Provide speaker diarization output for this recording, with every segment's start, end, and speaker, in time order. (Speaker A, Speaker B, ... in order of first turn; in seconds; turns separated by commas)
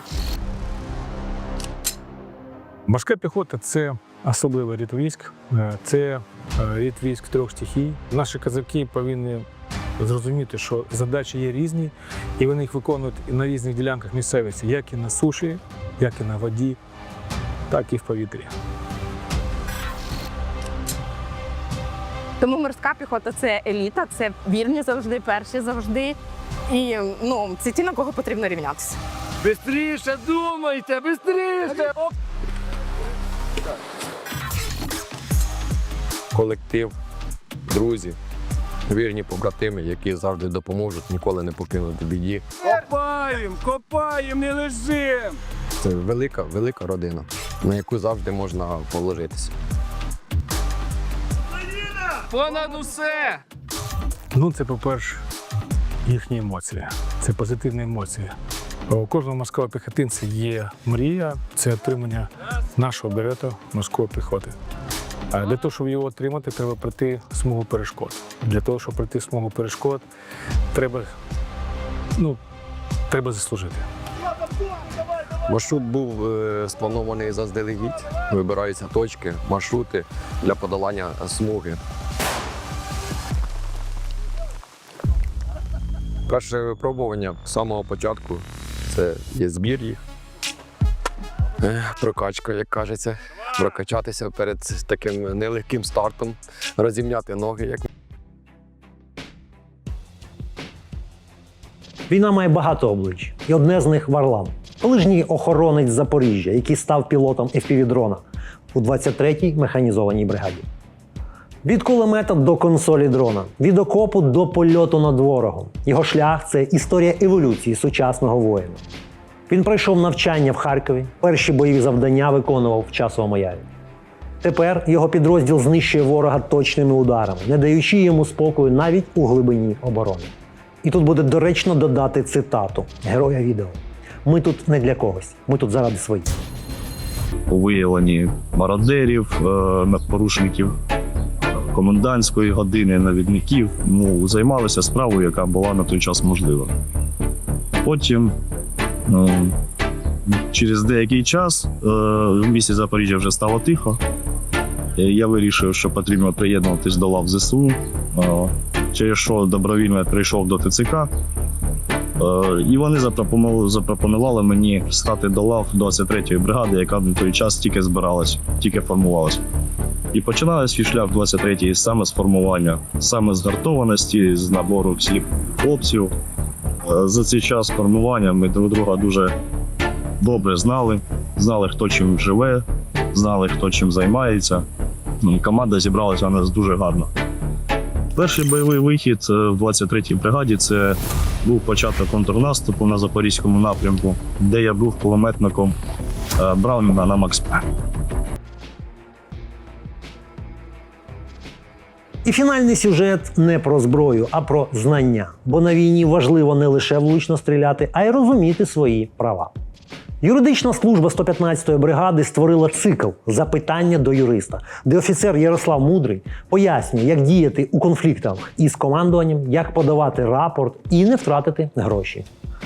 Speaker A: 2.9-9.5, Speaker A: 10.0-16.8, Speaker A: 17.7-18.5, Speaker B: 22.4-26.2, Speaker B: 26.7-29.0, Speaker C: 29.4-31.9, Speaker D: 36.3-37.0, Speaker D: 37.7-38.2, Speaker D: 38.9-42.4, Speaker C: 42.7-45.4, Speaker D: 45.8-49.5, Speaker C: 52.3-53.4, Speaker A: 54.3-55.2, Speaker A: 56.1-58.3, Speaker A: 58.9-64.6, Speaker A: 65.3-70.0, Speaker A: 70.7-71.1, Speaker A: 73.1-73.9, Speaker D: 75.5-81.8, Speaker D: 86.3-90.0, Speaker D: 91.6-97.9, Speaker E: 102.1-110.6, Speaker E: 111.6-118.8, Speaker E: 119.5-123.7, Speaker E: 124.4-136.4, Speaker F: 137.5-140.7, Speaker F: 141.7-146.7, Speaker F: 147.8-148.3, Speaker F: 149.1-149.6, Speaker F: 150.5-154.0, Speaker F: 155.0-161.1, Speaker F: 162.2-169.4, Speaker F: 170.1-176.1, Speaker F: 176.9-179.3, Speaker F: 180.2-182.6, Speaker F: 183.1-184.6, Speaker F: 185.2-187.1, Speaker F: 188.2-195.8, Speaker F: 196.4-197.6, Speaker E: 202.2-209.5, Speaker E: 210.2-222.3